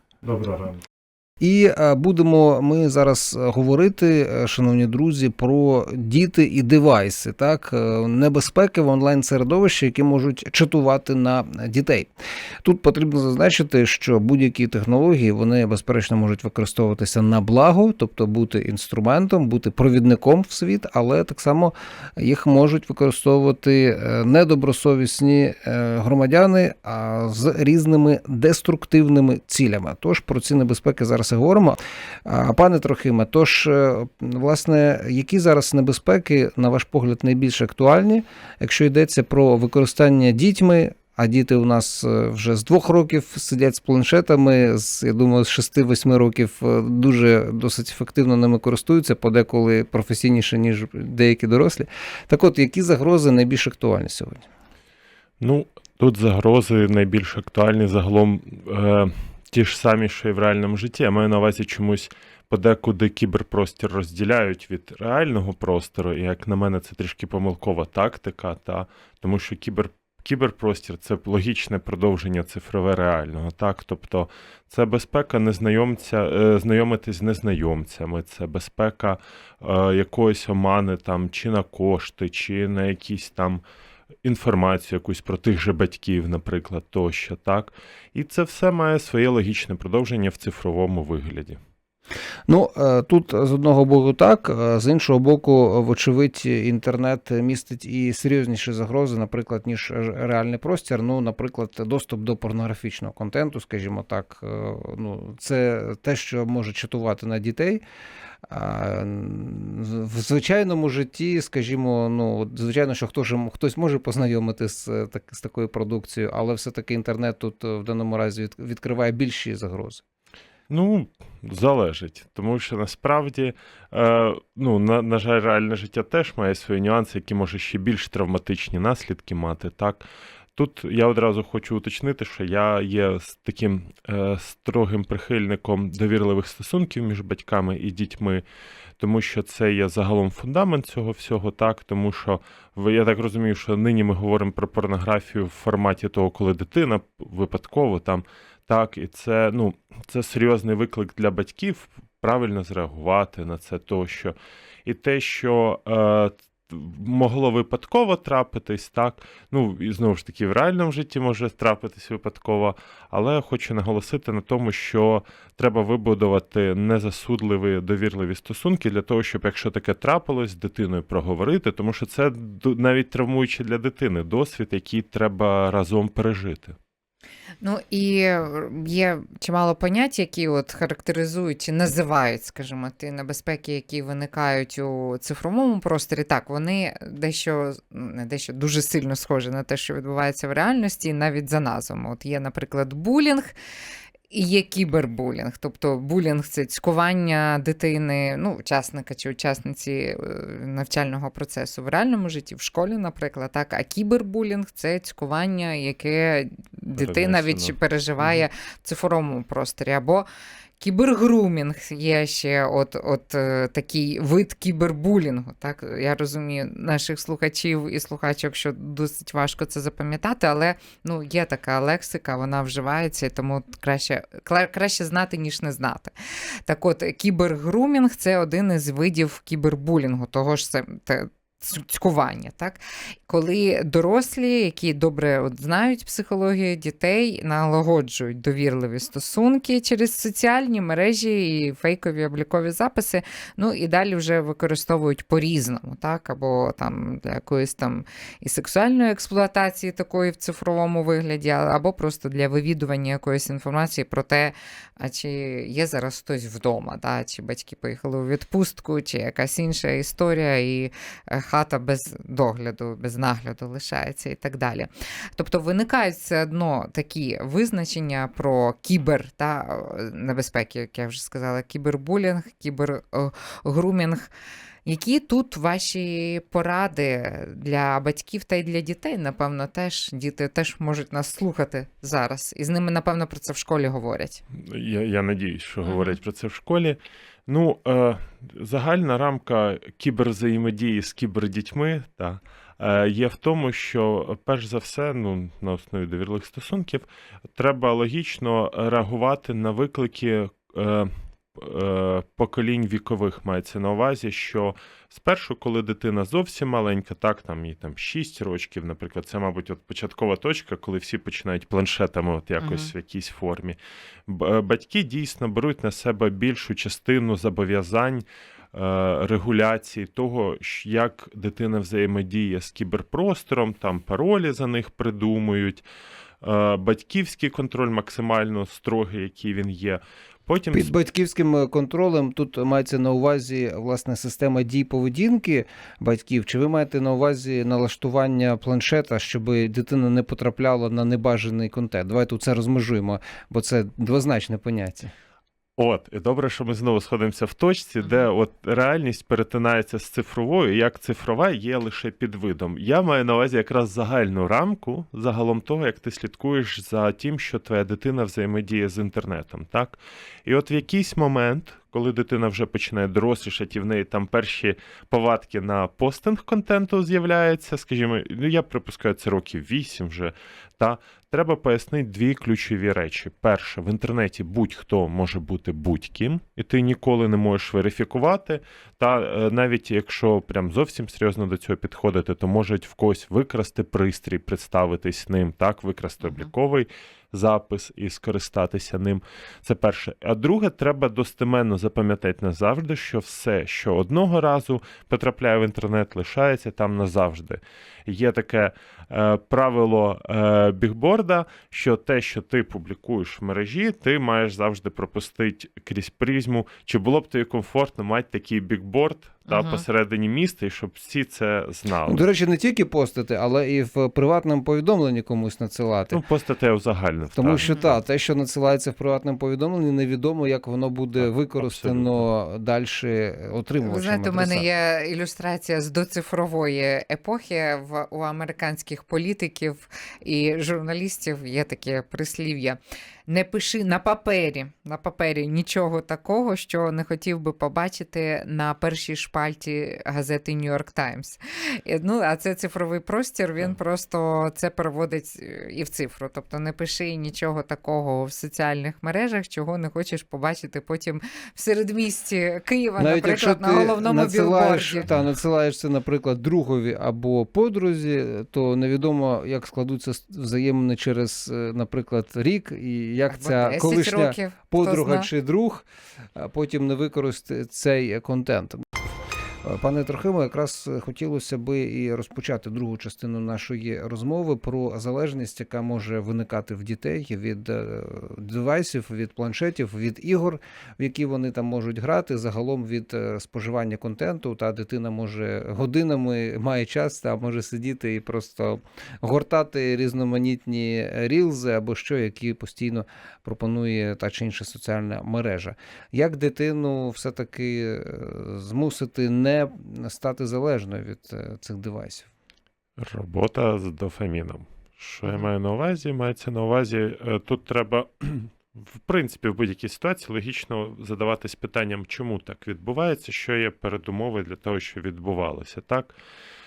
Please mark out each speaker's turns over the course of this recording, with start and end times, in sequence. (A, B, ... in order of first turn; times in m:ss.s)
0:00.2-0:00.8 A
0:01.4-0:12.1 B
0:12.6-0:54.5 B
0:55.4-1:23.6 A
1:24.2-1:31.6 A
1:32.5-1:47.8 B
1:48.5-2:00.0 B
2:00.7-2:18.4 A
2:19.0-2:56.8 A
2:57.6-3:13.5 C
3:14.3-3:30.2 C
3:26.9-3:28.4 A
3:30.8-3:46.1 C
3:46.6-4:34.3 C
4:34.8-4:44.4 C
4:44.5-5:25.8 A
4:45.8-4:46.2 C
5:12.6-5:12.9 C
5:26.4-5:30.9 A
5:30.7-5:45.1 B
5:45.8-6:52.3 A
5:48.0-5:48.3 C
6:26.2-6:26.5 C
6:49.5-6:49.8 C
6:52.1-6:56.2 B
6:56.1-6:57.9 A
6:57.3-7:04.6 B
6:57.6-6:58.0 C
7:01.2-7:02.2 A
7:03.8-7:35.1 C
7:33.0-7:48.8 B
7:43.3-7:45.3 C
7:49.6-8:22.3 B
8:23.0-8:36.1 A